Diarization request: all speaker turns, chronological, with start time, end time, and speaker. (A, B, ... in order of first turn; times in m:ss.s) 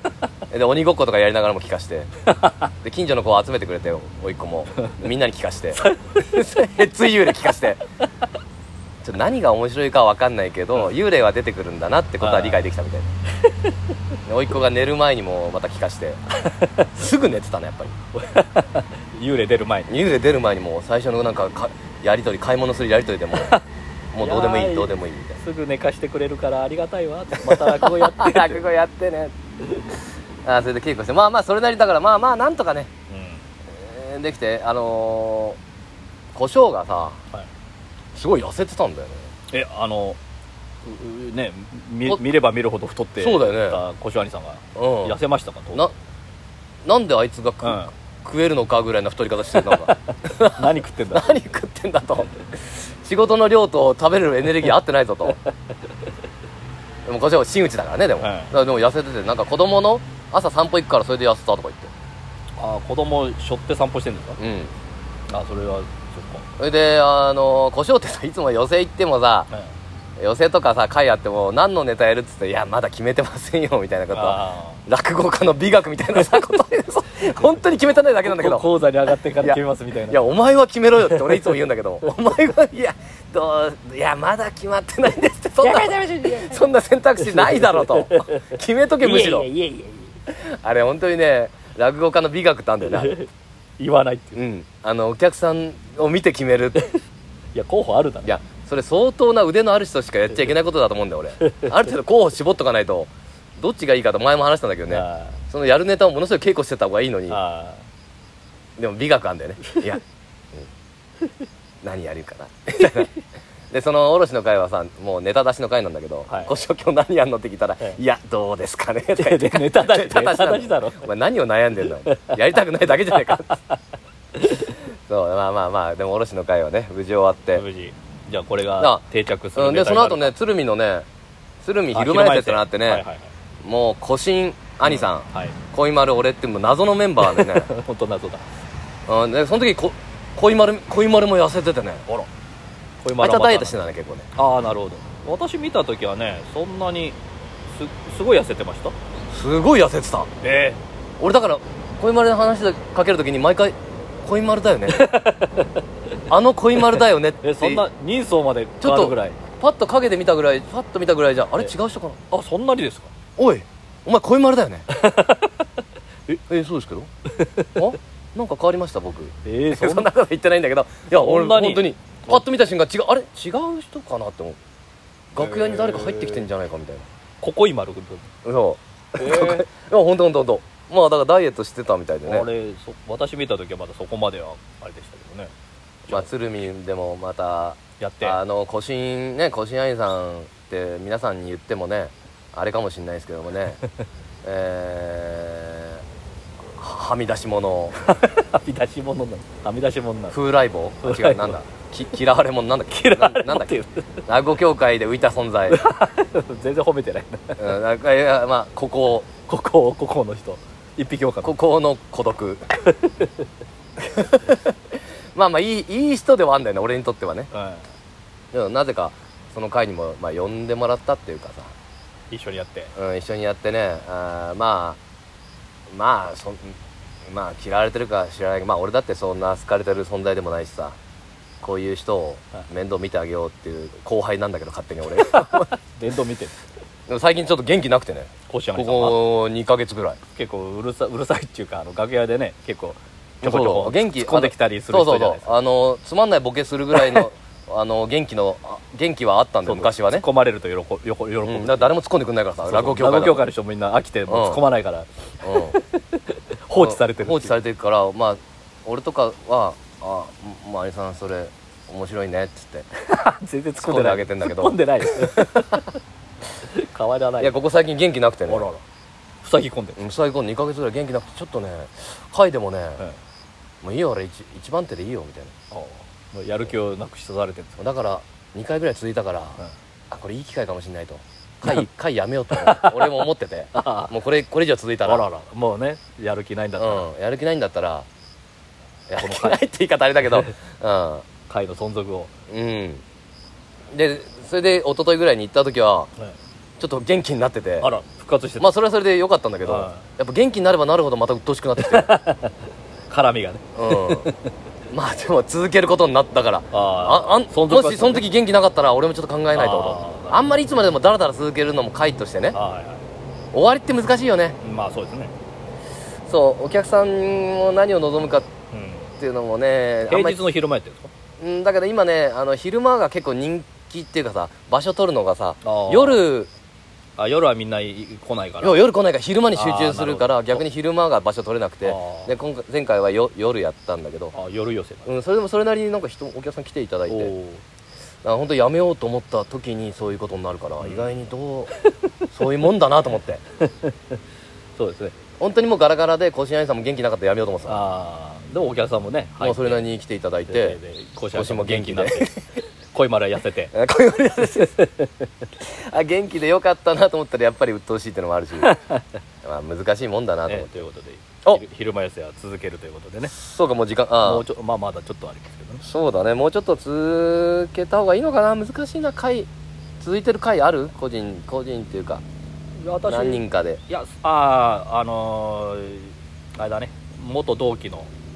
0:00.5-0:02.1 A
0:02.4-0:02.7 B
0:02.8-0:07.8 A
0:05.8-0:06.5 B
0:09.0-0:13.1 A
0:12.2-0:12.7 B
0:14.3-0:16.2 A
0:16.4-0:16.9 B
0:16.9-0:18.0 A
0:18.2-0:19.9 B
0:19.9-0:23.6 A
0:23.4-0:23.6 B
0:24.1-0:25.4 A
0:24.2-0:28.6 B
0:27.4-0:29.3 A
0:30.4-0:32.9 A
0:33.1-0:33.5 B
0:33.7-0:35.6 A
0:36.3-0:37.2 A
0:38.2-0:39.3 A
0:39.5-0:40.2 B
0:40.8-0:45.8 B
0:43.2-0:43.8 A
0:44.8-0:45.2 A
0:46.8-0:55.4 A
0:47.6-0:47.9 B
0:49.5-0:51.3 B
0:57.0-1:01.9 A
0:58.2-0:58.5 B
1:02.6-1:04.4 B
1:04.4-1:04.7 A
1:05.3-1:06.5 B
1:06.6-1:09.5 A
1:10.2-1:18.7 A
1:14.1-1:14.8 B
1:18.2-1:20.2 B
1:19.4-1:29.5 A
1:21.0-1:21.5 B
1:25.6-1:26.6 B
1:27.2-1:28.4 B
1:29.0-1:30.1 B
1:30.3-1:33.2 A
1:32.9-1:34.4 B
1:34.4-1:36.9 A
1:37.6-1:38.4 B
1:38.2-1:47.4 A
1:41.4-1:41.7 B
1:44.9-1:45.4 B
1:47.3-1:47.8 B
1:48.8-1:50.0 A
1:51.8-1:53.1 A
1:53.7-2:03.6 A
1:56.3-1:56.5 B
1:59.2-2:01.1 B
2:02.1-2:02.4 B
2:03.1-2:03.7 B
2:04.4-2:04.8 B
2:05.1-2:07.6 A
2:07.6-2:10.4 B
2:08.8-2:09.0 A
2:09.6-2:11.1 A
2:11.6-2:13.0 A
2:11.9-2:13.3 B
2:13.6-2:17.7 A
2:14.8-2:15.6 B
2:17.2-2:18.4 B
2:19.1-2:22.1 A
2:23.0-2:23.8 B
2:23.2-2:24.3 A
2:24.4-2:27.2 B
2:27.7-2:29.0 B
2:29.3-2:30.3 A
2:30.4-2:30.8 B
2:31.2-2:35.0 A
2:34.9-2:35.7 B
2:36.3-2:37.9 A
2:36.8-2:39.4 B
2:38.8-2:42.2 A
2:42.3-2:43.1 B
2:43.4-2:44.9 A
2:44.9-2:45.6 B
2:46.5-2:47.1 A
2:47.4-2:47.7 B
2:47.8-2:54.6 A
2:49.4-2:50.1 B
2:51.1-2:52.4 B
2:55.3-2:57.1 A
2:55.4-2:56.5 B
2:57.4-2:58.3 B
2:58.4-3:02.5 A
2:59.2-2:59.7 B
3:02.3-3:05.5 B
3:06.1-3:13.8 A
3:08.0-3:08.4 B
3:14.4-3:16.0 A
3:16.8-3:18.1 A
3:18.1-3:20.4 B
3:20.3-3:23.7 A
3:21.0-3:21.6 B
3:22.9-3:24.0 B
3:24.3-3:25.9 A
3:25.7-3:27.7 B
3:27.6-3:29.3 A
3:29.5-3:31.5 B
3:31.4-3:32.6 A
3:33.0-3:33.3 B
3:34.0-3:34.6 A
3:35.4-3:37.5 A
3:37.5-3:37.8 B
3:38.5-3:41.7 A
3:42.3-3:42.9 B
3:43.0-3:45.0 A
3:45.9-3:46.8 A
3:47.3-3:51.0 A
3:51.6-3:55.7 A
3:55.3-3:56.5 B
3:57.1-4:00.2 A
3:58.5-3:59.2 B
4:00.3-4:05.5 B
4:03.4-4:10.2 A
4:07.0-4:07.3 B
4:09.7-4:11.9 B
4:11.4-4:13.4 A
4:12.6-4:15.1 B
4:14.3-4:14.6 A
4:15.4-4:15.8 A
4:15.7-4:17.6 B
4:16.8-4:22.9 A
4:23.0-4:25.9 B
4:23.8-4:25.8 A
4:26.7-4:27.6 B
4:27.4-4:28.7 A
4:28.5-4:28.8 B
4:29.4-4:30.0 B
4:30.0-4:33.0 A
4:33.8-4:35.5 A
4:35.7-4:37.8 B
4:37.8-4:45.3 A
4:42.6-4:43.2 B
4:43.8-4:44.1 B
4:45.0-4:47.1 B
4:46.8-4:48.1 A
4:49.1-4:51.2 A
4:49.2-4:49.6 B
4:51.5-4:52.3 B
4:52.5-4:53.0 A
4:53.9-4:56.1 A
4:56.8-4:57.9 A
4:57.8-4:58.7 B
4:58.6-5:02.1 A
4:59.6-5:00.0 B
5:01.8-5:02.6 B
5:03.1-5:04.3 B
5:03.8-5:04.3 A
5:04.9-5:12.6 A
5:06.7-5:08.2 B
5:09.6-5:10.5 B
5:12.5-5:13.0 B
5:13.5-5:14.6 A
5:14.6-5:15.3 B
5:16.3-5:18.5 A
5:18.7-5:19.1 B
5:19.2-5:20.5 A
5:20.1-5:21.1 B
5:21.4-5:26.5 A
5:25.6-5:26.2 B
5:27.2-5:28.8 B
5:28.6-5:34.4 A
5:29.5-5:30.6 B
5:31.8-5:32.3 B
5:34.3-5:35.1 B
5:35.1-5:37.3 A
5:37.1-5:37.6 B
5:38.2-5:41.7 A
5:40.8-5:41.1 B
5:42.3-5:43.4 A
5:43.7-5:43.9 B
5:44.8-5:45.2 B
5:45.4-5:47.8 A
5:47.7-5:49.8 B
5:49.4-5:50.8 A
5:50.5-5:52.3 B
5:51.3-5:52.4 A
5:52.9-5:53.7 B
5:53.7-5:54.8 A
5:54.8-5:55.1 B
5:55.6-5:58.8 A
5:58.6-5:59.0 B
5:59.4-6:00.9 A
6:00.5-6:03.3 B
6:03.2-6:04.5 A
6:04.2-6:05.8 B
6:05.8-6:09.5 A
6:10.0-6:12.2 A
6:12.8-6:18.1 B
6:13.1-6:13.8 A